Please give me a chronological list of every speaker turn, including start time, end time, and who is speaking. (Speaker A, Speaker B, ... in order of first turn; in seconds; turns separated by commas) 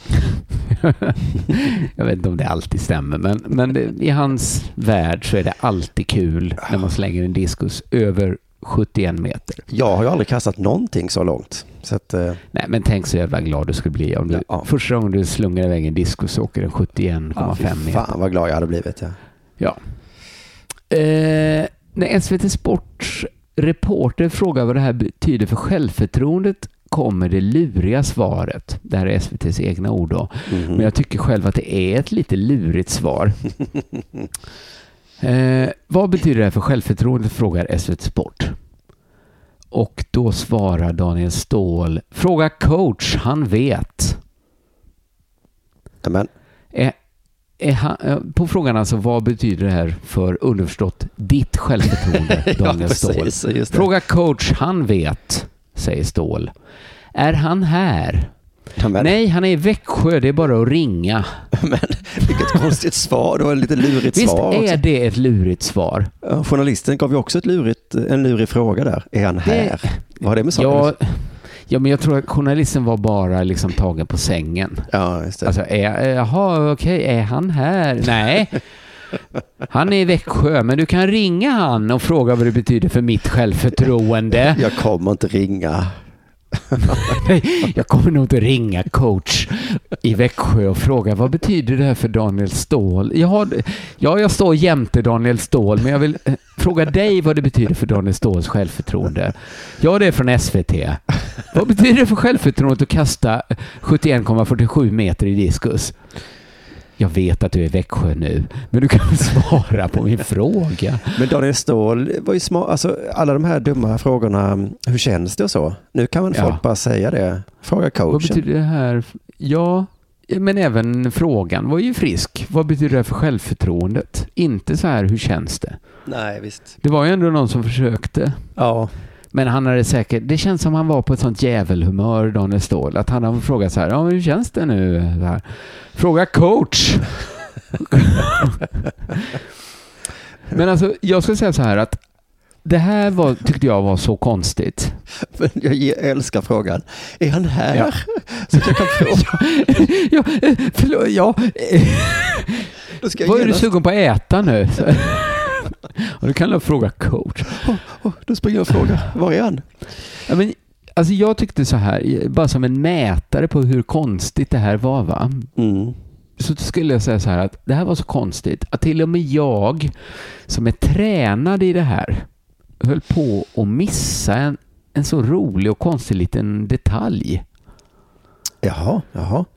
Speaker A: 0.3-9.7, Speaker B: 9.7-12.4, Speaker A: 12.5-18.1, Speaker B: 14.3-14.7, Speaker B: 17.4-19.2, Speaker A: 19.6-19.9, Speaker A: 20.9-33.5, Speaker B: 30.5-30.9, Speaker A: 35.2-38.6, Speaker A: 39.7-44.2, Speaker B: 46.0-46.3, Speaker A: 47.6-56.5, Speaker B: 52.2-53.9, Speaker A: 57.1-58.3, Speaker B: 58.8-59.1, Speaker A: 59.0-61.4, Speaker B: 61.5-64.8, Speaker A: 64.1-66.1, Speaker B: 66.2-70.9, Speaker A: 69.4-74.9, Speaker B: 74.9-75.5, Speaker A: 75.4-78.6, Speaker A: 79.7-84.6, Speaker B: 84.5-86.0, Speaker B: 86.5-87.0, Speaker A: 87.0-106.0, Speaker A: 107.0-111.2, Speaker B: 111.1-118.4, Speaker A: 116.3-116.6, Speaker A: 118.1-125.8, Speaker B: 126.0-126.7, Speaker A: 126.8-128.5, Speaker B: 128.6-128.9, Speaker A: 129.3-137.2, Speaker A: 137.9-138.6, Speaker A: 140.5-142.0, Speaker A: 142.6-145.0, Speaker B: 145.3-149.4, Speaker A: 148.5-157.6, Speaker B: 153.0-153.7, Speaker B: 157.5-159.7, Speaker A: 160.3-165.5, Speaker B: 165.6-166.0, Speaker A: 166.4-169.9, Speaker A: 170.5-172.3, Speaker A: 172.8-177.4, Speaker B: 178.6-179.5